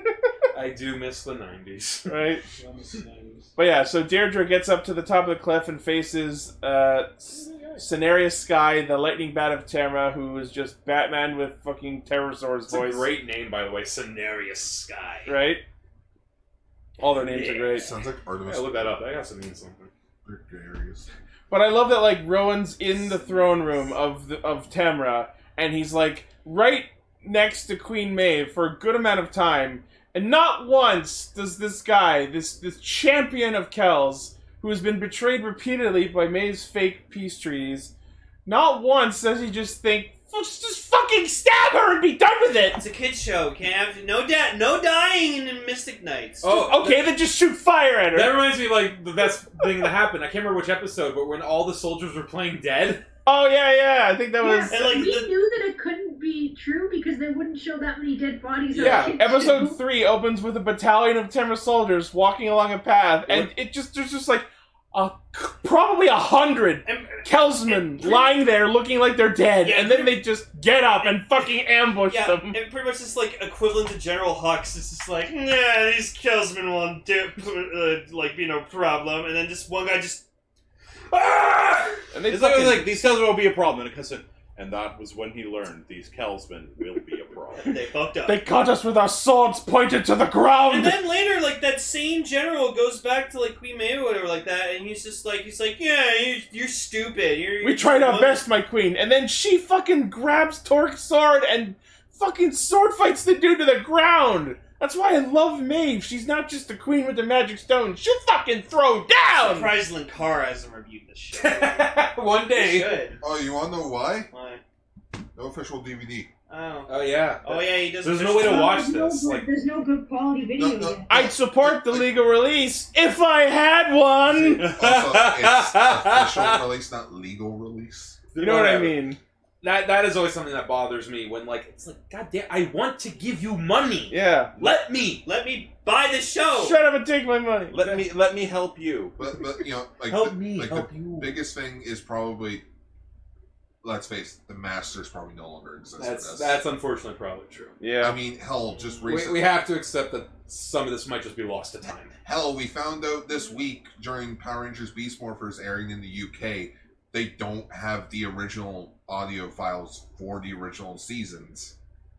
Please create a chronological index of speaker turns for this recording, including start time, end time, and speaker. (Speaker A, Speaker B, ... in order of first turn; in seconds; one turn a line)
Speaker A: 0.5-3.5
Speaker B: 2.1-2.4
Speaker B: 3.6-13.1
Speaker A: 7.3-7.8
Speaker A: 12.7-15.3
Speaker B: 15.3-15.6
Speaker B: 17.0-17.9
Speaker C: 17.3-17.9
Speaker D: 17.8-19.0
Speaker A: 18.4-19.9
Speaker D: 20.2-21.1
Speaker B: 21.5-37.9
Speaker B: 38.4-42.8
Speaker C: 42.7-47.1
Speaker A: 46.4-46.9
Speaker B: 46.6-48.4
Speaker A: 48.1-53.0
Speaker B: 53.3-54.9
Speaker E: 54.4-59.8
Speaker C: 54.7-55.3
Speaker A: 58.7-59.2
Speaker B: 58.8-72.6
Speaker C: 66.8-68.4
Speaker C: 69.6-70.2
Speaker C: 71.0-71.4
Speaker C: 72.1-80.2
Speaker C: 81.1-82.0
Speaker B: 82.1-83.0
Speaker F: 82.3-87.7
Speaker C: 87.5-88.4
Speaker B: 88.3-91.0
Speaker C: 90.7-98.4
Speaker B: 97.6-109.8
Speaker C: 109.4-113.2
Speaker A: 111.3-113.0
Speaker D: 113.2-114.3
Speaker C: 114.3-114.6
Speaker D: 115.3-116.3
Speaker C: 116.5-116.9
Speaker A: 116.9-119.5
Speaker C: 117.4-118.8
Speaker E: 118.4-121.1
Speaker D: 120.5-122.1
Speaker B: 121.1-124.7
Speaker D: 124.3-128.2
Speaker A: 124.5-126.7
Speaker A: 128.3-129.0
Speaker B: 128.4-129.2
Speaker A: 129.6-135.3
Speaker B: 134.1-134.5
Speaker C: 135.2-136.8
Speaker B: 136.5-137.8
Speaker F: 137.7-139.2
Speaker D: 139.2-142.6
Speaker C: 140.1-140.6
Speaker A: 140.2-141.3
Speaker D: 143.8-146.6
Speaker A: 146.0-147.8
Speaker B: 147.8-148.2
Speaker D: 148.0-149.5
Speaker A: 149.1-152.1
Speaker D: 152.2-161.7